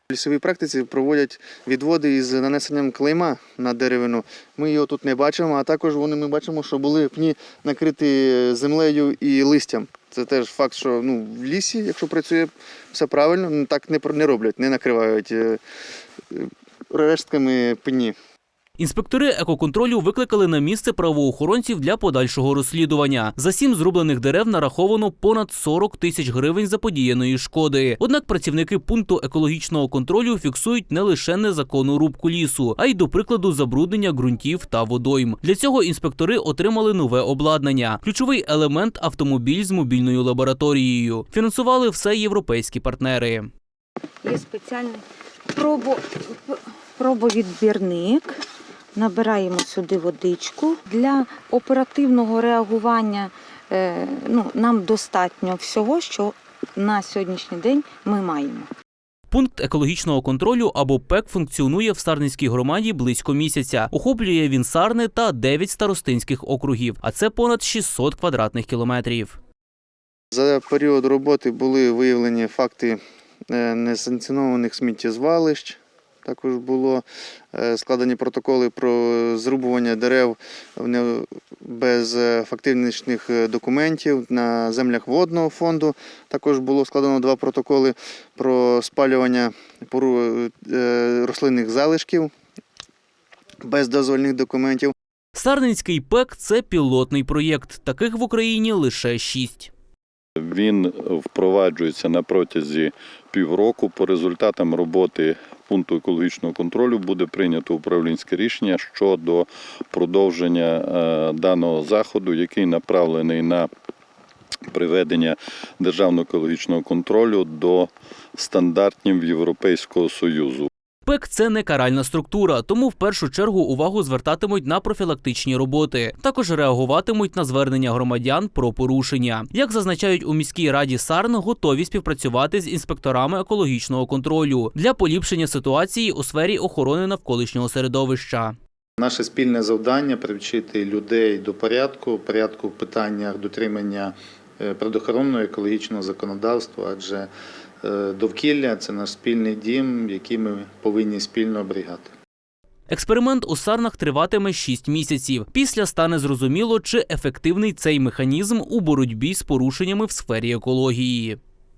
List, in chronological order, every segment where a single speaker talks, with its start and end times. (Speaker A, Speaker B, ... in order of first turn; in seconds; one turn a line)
Speaker A: 0.1-15.6
Speaker A: 16.3-18.1
Speaker B: 18.8-43.5
Speaker C: 44.2-48.4
Speaker C: 49.0-58.7
Speaker B: 59.3-69.4
Speaker A: 70.3-73.0
Speaker A: 73.5-92.3
Speaker A: 93.6-94.9
Speaker B: 95.3-99.7
Speaker D: 100.4-113.7
Speaker D: 114.7-120.7
Speaker B: 121.0-138.6
Speaker E: 139.0-147.3
Speaker E: 147.8-152.1
Speaker B: 152.9-161.4